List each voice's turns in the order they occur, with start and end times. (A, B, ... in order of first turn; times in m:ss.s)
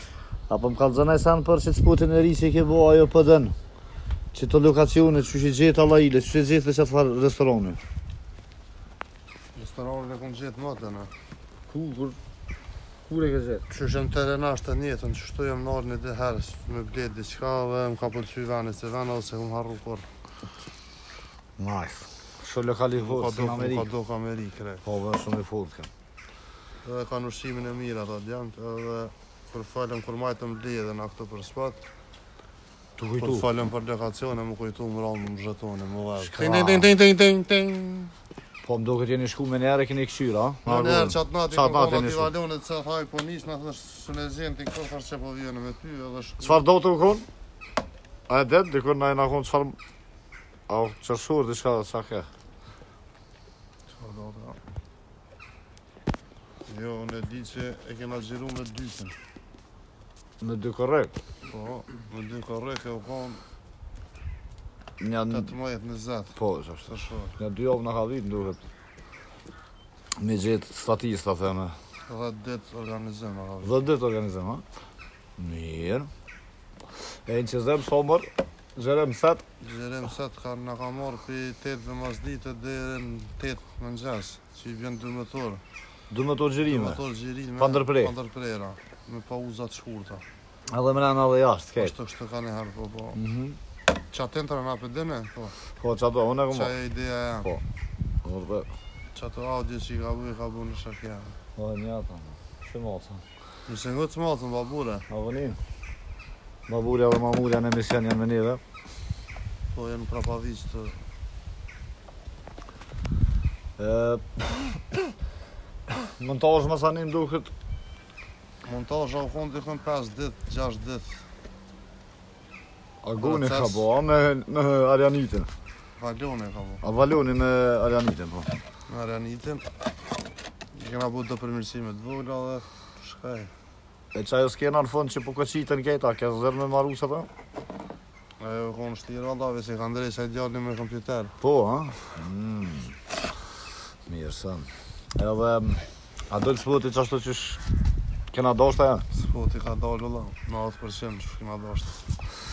0:00.5-0:03.5 A
0:04.3-0:07.8 A
0:09.5-0:11.1 B
0:11.7-0:12.2 A
0:13.1-0:13.6 A
0:13.7-0:20.0 B
0:21.6-0:23.9 A
0:23.0-0:24.8 B
0:24.8-0:25.9 A
0:26.8-0:31.8 B
0:33.0-0:33.5 A
0:33.2-0:38.1 B
0:36.2-0:36.9 A
0:38.6-0:42.3 A
0:40.6-0:46.6 B
0:46.4-0:47.2 A
0:48.3-0:49.8 A
0:50.7-0:52.3 A
0:53.9-0:54.6 B
0:56.7-0:59.1 B
1:00.4-1:01.1 A
1:01.4-1:03.4 B
1:05.0-1:05.5 A
1:05.2-1:07.4 B
1:06.4-1:08.6 A
1:10.2-1:11.7 A
1:12.0-1:13.8 B
1:13.6-1:14.6 A
1:15.4-1:16.1 A
1:17.2-1:19.4 A
1:19.6-1:25.6 B
1:26.1-1:27.0 A
1:26.6-1:30.2 B
1:27.6-1:28.1 A
1:30.7-1:31.9 A
1:31.8-1:33.2 B
1:33.1-1:33.6 A
1:34.1-1:35.6 B
1:35.7-1:36.7 A
1:36.5-1:37.5 B
1:38.2-1:38.7 A
1:39.1-1:41.3 B
1:41.6-1:43.2 A
1:43.7-1:45.1 B
1:45.1-1:45.6 A
1:46.7-1:48.6 A
1:49.7-1:51.0 B
1:53.8-1:55.1 A
1:55.9-1:57.5 A
1:58.6-2:01.2 B
2:03.0-2:05.5 A
2:03.2-2:03.9 B
2:06.0-2:06.8 B
2:06.8-2:08.5 A
2:08.9-2:09.6 B
2:10.7-2:13.5 B
2:14.1-2:17.3 A
2:18.4-2:21.3 B
2:21.4-2:22.9 A
2:24.0-2:27.6 A
2:28.3-2:29.0 A
2:29.1-2:32.0 B